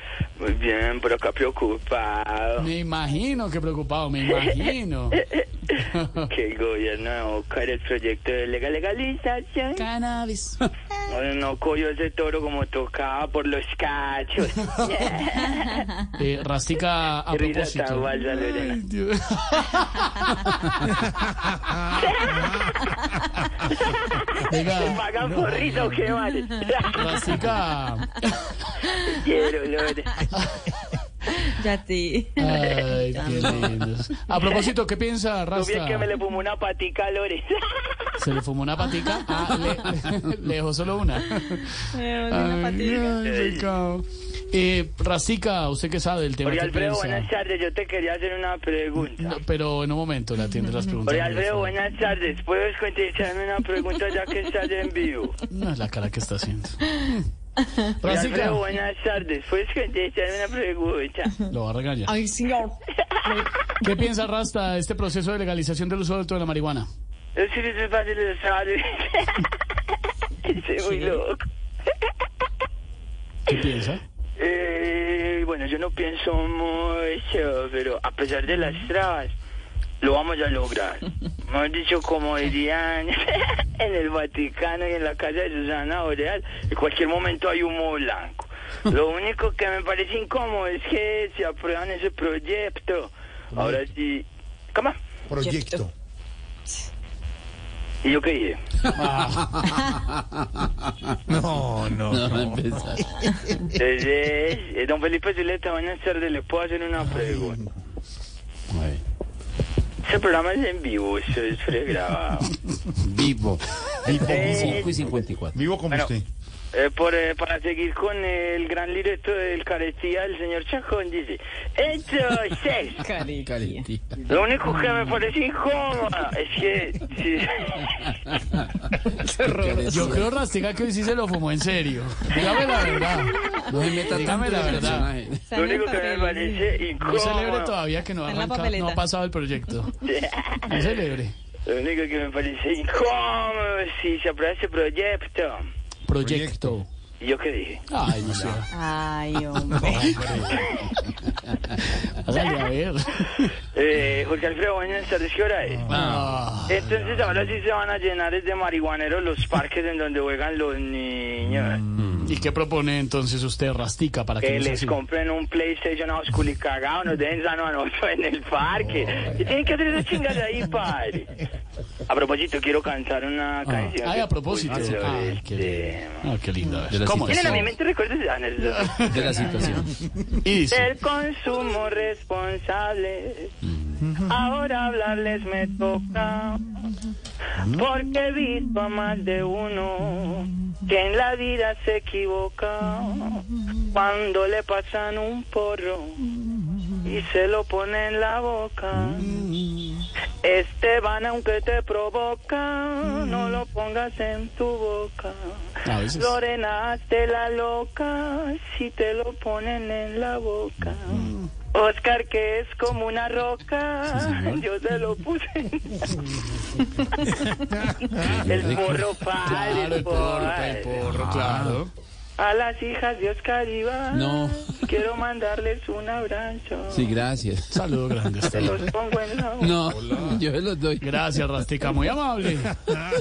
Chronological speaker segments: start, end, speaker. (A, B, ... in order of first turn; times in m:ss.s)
0:00.4-0:02.7 A
0:02.6-0:06.3 B
0:05.3-0:09.8 A
0:09.8-0:10.6 B
0:11.1-0:15.8 A
0:16.1-0:21.1 B
0:17.3-0:18.8 A
0:21.9-0:22.4 A
0:23.7-0:27.0 A
0:24.4-0:26.0 B
0:26.9-0:28.9 B
0:29.0-0:30.3 A
0:30.3-0:30.7 B
0:31.3-0:33.8 C
0:32.4-0:36.1 B
0:35.5-0:38.1 A
0:38.2-0:47.3 B
0:41.9-0:43.2 C
0:42.8-0:43.7 A
0:46.4-0:49.4 A
0:49.1-0:51.8 B
0:51.0-0:55.4 A
0:55.5-0:57.2 B
0:57.8-0:58.6 B
0:58.0-1:01.3 A
1:01.5-1:02.2 B
1:02.1-1:03.6 C
1:03.8-1:06.9 B
1:07.4-1:09.5 A
1:10.4-1:11.4 A
1:10.8-1:11.2 C
1:13.5-1:14.0 B
1:14.4-1:19.3 A
1:20.0-1:34.9 A
1:35.3-1:35.9 D
1:35.4-1:35.9 C
1:38.0-1:38.6 A
1:38.9-1:39.5 B
1:39.2-1:40.7 E
1:41.3-1:42.5 D
1:42.0-1:43.4 E
1:43.7-1:47.6 A
1:48.7-1:49.0 E
1:50.0-1:52.5 A
1:53.0-1:55.6 E
1:54.0-1:54.9 D
1:54.1-1:54.9 A
1:55.5-1:56.2 D
1:56.7-2:03.0 A
2:03.0-2:03.8 C
2:03.4-2:04.2 E
2:04.3-2:08.1 A
2:08.0-2:08.9 E
2:09.0-2:10.1 C
2:09.4-2:10.3 E
2:09.9-2:15.1 B
2:12.3-2:12.9 C
2:13.4-2:14.0 C
2:13.7-2:15.4 E
2:14.5-2:16.7 C
2:15.5-2:17.8 A
2:17.0-2:19.9 B
2:18.2-2:19.0 C
2:20.0-2:20.9 A
2:20.6-2:21.3 B
2:21.6-2:25.6 A
2:26.0-2:26.9 B
2:26.2-2:26.8 D
2:27.2-2:27.8 A
2:27.9-2:28.7 B
2:28.3-2:28.6 D
2:28.7-2:30.2 C
2:29.7-2:30.7 D
2:30.5-2:30.9 A
2:31.8-2:33.5 B
2:33.7-2:35.9 A
2:35.8-2:36.2 D
2:35.9-2:36.4 E
2:35.9-2:37.2 B
2:36.7-2:41.8 A
2:42.0-2:42.4 E
2:42.2-2:45.0 B
2:44.4-2:51.4 A
2:52.1-2:56.2 A
2:53.6-2:57.7 B
2:56.9-2:57.7 E
2:57.3-2:59.7 A
2:58.6-2:59.2 B
2:59.0-2:59.9 E
2:59.5-2:59.9 C
3:00.4-3:00.9 B
3:00.7-3:03.5 A
3:04.1-3:06.8 A
3:07.6-3:16.3 A
3:17.0-3:19.4 A
3:20.4-3:36.3 A
3:25.8-3:26.4 B
3:38.1-3:39.1 E
3:38.4-3:41.1 A
3:39.4-3:41.9 B
3:41.1-3:41.8 E
3:42.4-3:47.1 A
3:44.1-3:44.8 E
3:46.9-3:47.8 E
3:47.7-3:48.8 B
3:48.4-3:48.8 E
3:48.5-3:49.8 A
3:49.6-3:51.2 E
3:51.0-3:52.8 B